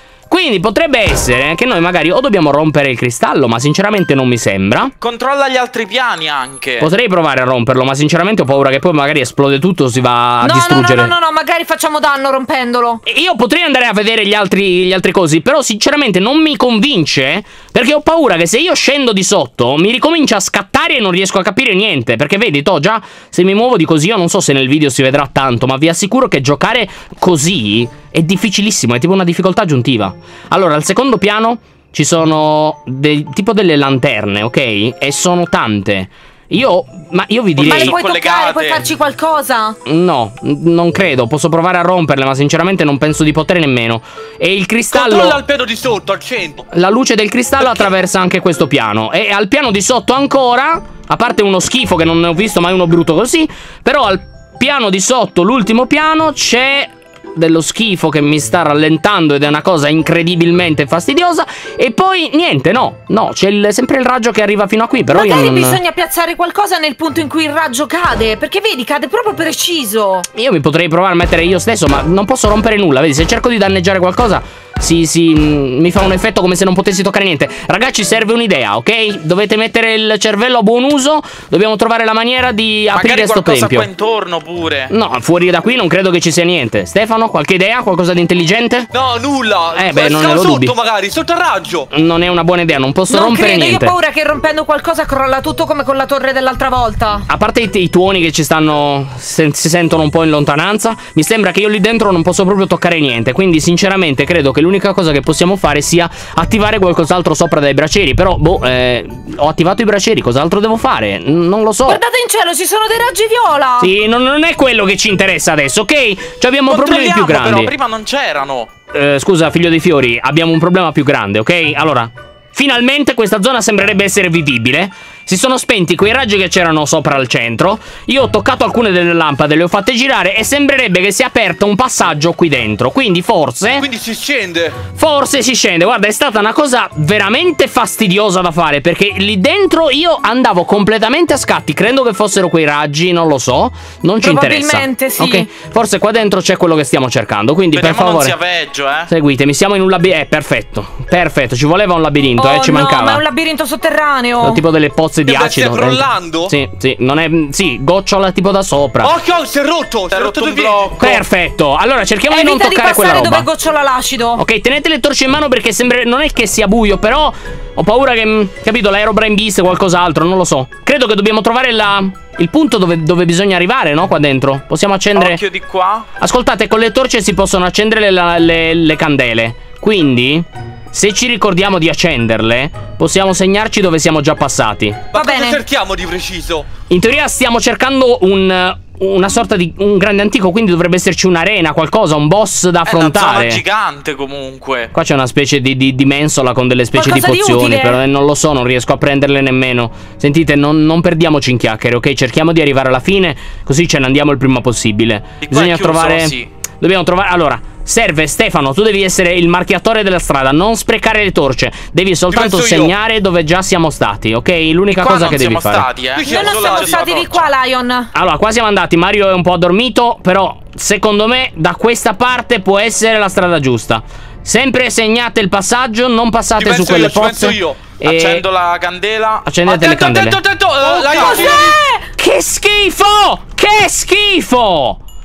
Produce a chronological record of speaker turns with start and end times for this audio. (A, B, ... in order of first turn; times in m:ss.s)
0:00.3-0:04.9 A
0:05.0-0:06.9 B
0:06.8-0:11.1 A
0:10.4-0:13.0 C
0:13.0-0:38.0 A
0:37.6-0:38.8 B
0:37.6-0:39.8 C
0:39.8-0:45.4 A
0:44.9-0:46.6 D
0:46.7-1:05.8 A
1:05.1-1:10.3 C
1:10.3-1:23.9 A
1:22.9-1:24.9 B
1:24.9-1:28.9 A
1:28.9-1:31.9 D
1:29.7-1:30.7 A
1:31.9-1:34.0 A
1:33.1-1:37.3 C
1:37.3-1:52.0 A
1:51.8-1:53.9 C
1:53.8-1:57.7 A
1:56.7-1:58.7 B
1:58.9-2:13.9 A
2:13.8-2:14.8 D
2:14.9-2:28.4 A
2:24.2-2:25.5 C
2:27.7-2:29.1 B
2:29.1-2:33.2 A
2:32.4-2:34.6 C
2:34.4-2:39.1 A
2:35.2-2:36.5 D
2:39.0-2:41.0 D
2:40.1-2:41.2 B
2:41.0-2:43.5 A
2:42.3-2:44.4 C
2:44.4-2:55.4 A
2:55.1-2:56.1 B
2:56.2-3:05.0 A
3:05.1-3:06.7 D
3:05.1-3:05.6 C
3:06.9-3:13.6 A
3:12.8-3:14.9 B
3:14.9-3:35.9 A
3:16.9-3:18.0 C
3:25.4-3:26.5 B
3:32.3-3:32.9 D
3:34.9-3:37.5 B
3:36.1-3:37.0 D
3:36.2-3:38.1 C
3:38.1-3:48.4 A
3:46.6-3:47.8 D
3:48.0-3:49.5 B
3:49.4-3:50.4 A
3:49.6-3:51.8 D
3:50.8-3:51.6 B
3:51.1-3:52.1 C
3:52.2-3:55.0 A